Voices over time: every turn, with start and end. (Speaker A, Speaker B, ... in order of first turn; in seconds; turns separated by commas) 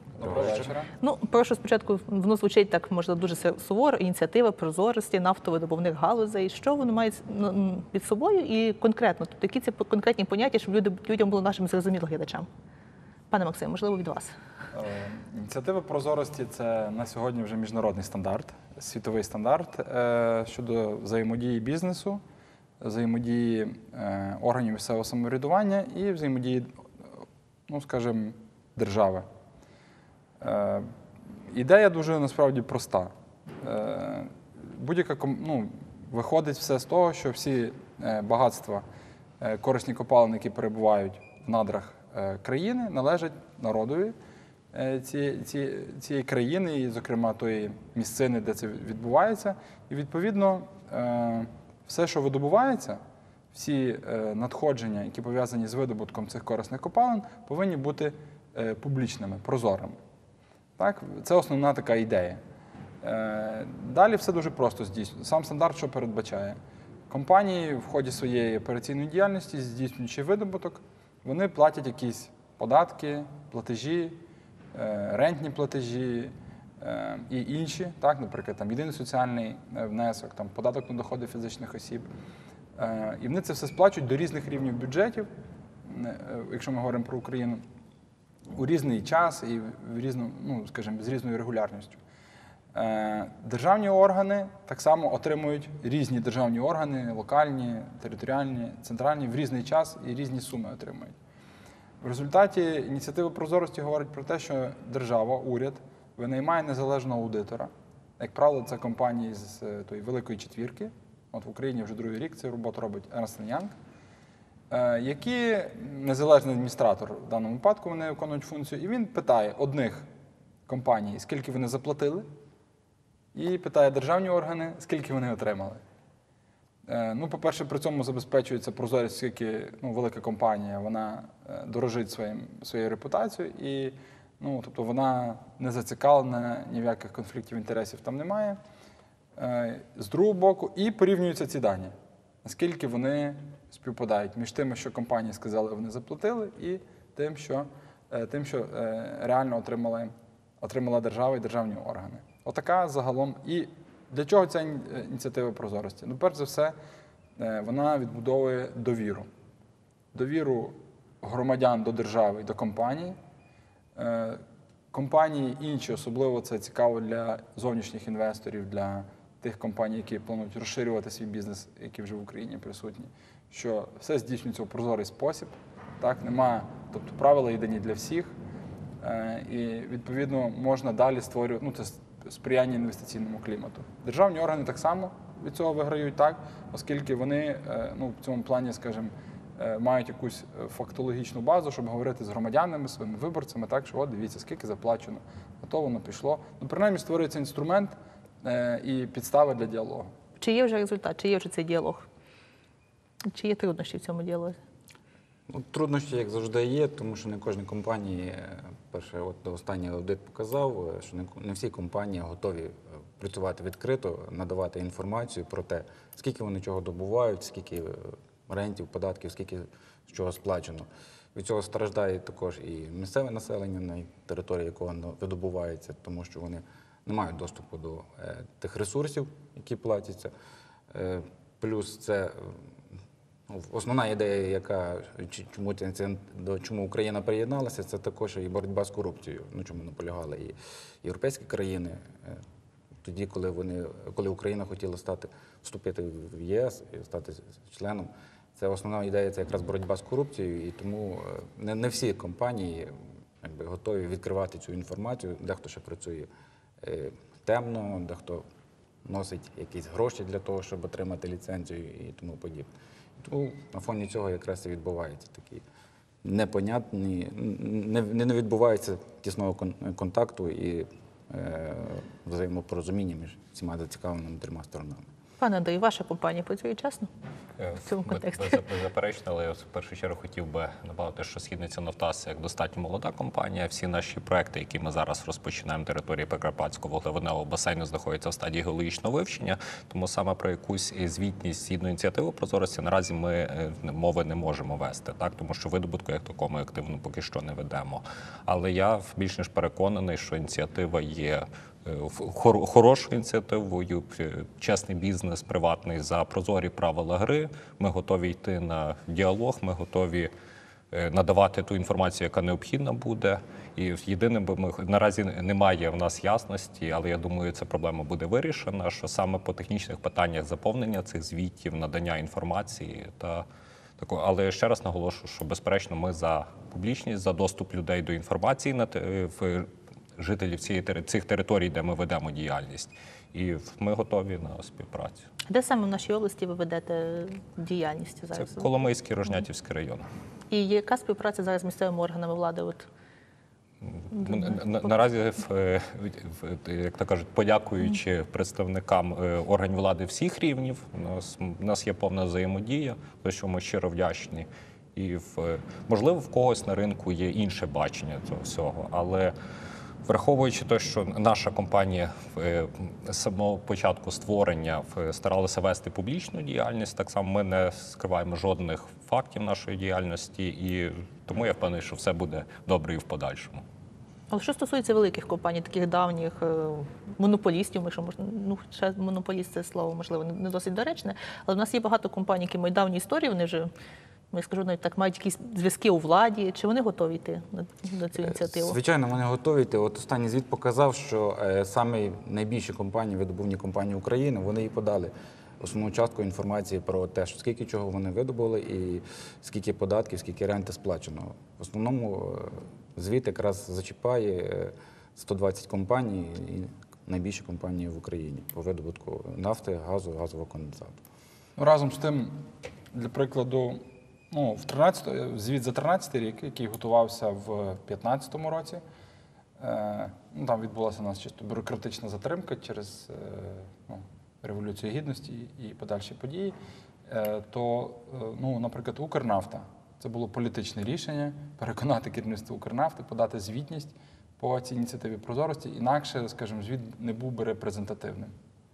Speaker A: 0.1-0.9, Speaker B: 0.2-0.7, Speaker C: 1.0-12.5, Speaker C: 13.3-14.3, Speaker A: 14.7-22.2, Speaker A: 22.8-29.3, Speaker A: 30.4-30.9, Speaker A: 31.5-38.8, Speaker A: 39.4-44.2, Speaker A: 44.7-53.0, Speaker A: 53.5-60.0, Speaker A: 60.8-62.4, Speaker A: 63.0-66.6, Speaker A: 67.1-74.2, Speaker A: 74.7-82.1, Speaker A: 82.8-85.3, Speaker A: 85.8-87.6, Speaker A: 88.5-92.0, Speaker A: 92.7-101.2, Speaker A: 102.0-113.7, Speaker A: 114.7-120.0, Speaker A: 120.7-122.3, Speaker A: 123.3-125.8, Speaker A: 126.9-138.6, Speaker A: 139.4-156.7, Speaker A: 157.4-159.3, Speaker A: 160.1-163.2, Speaker A: 163.9-178.3, Speaker A: 179.0-200.1, Speaker C: 200.4-202.1, Speaker C: 203.2-204.6, Speaker B: 205.5-230.3, Speaker B: 230.9-232.7, Speaker B: 233.5-242.4, Speaker B: 243.0-256.3, Speaker B: 256.8-258.4, Speaker B: 259.0-262.7, Speaker B: 263.2-265.6, Speaker B: 266.2-275.0, Speaker C: 275.4-277.1, Speaker D: 277.6-310.3, Speaker C: 277.8-278.6, Speaker D: 310.9-323.4, Speaker D: 324.0-335.3, Speaker C: 335.5-338.7, Speaker D: 338.4-340.1, Speaker C: 340.5-342.9, Speaker D: 343.8-359.3, Speaker D: 360.0-373.6, Speaker C: 374.3-383.7, Speaker C: 384.3-388.8, Speaker B: 388.2-411.0, Speaker A: 411.6-412.4, Speaker A: 412.9-418.8, Speaker A: 419.6-426.6, Speaker A: 427.1-438.3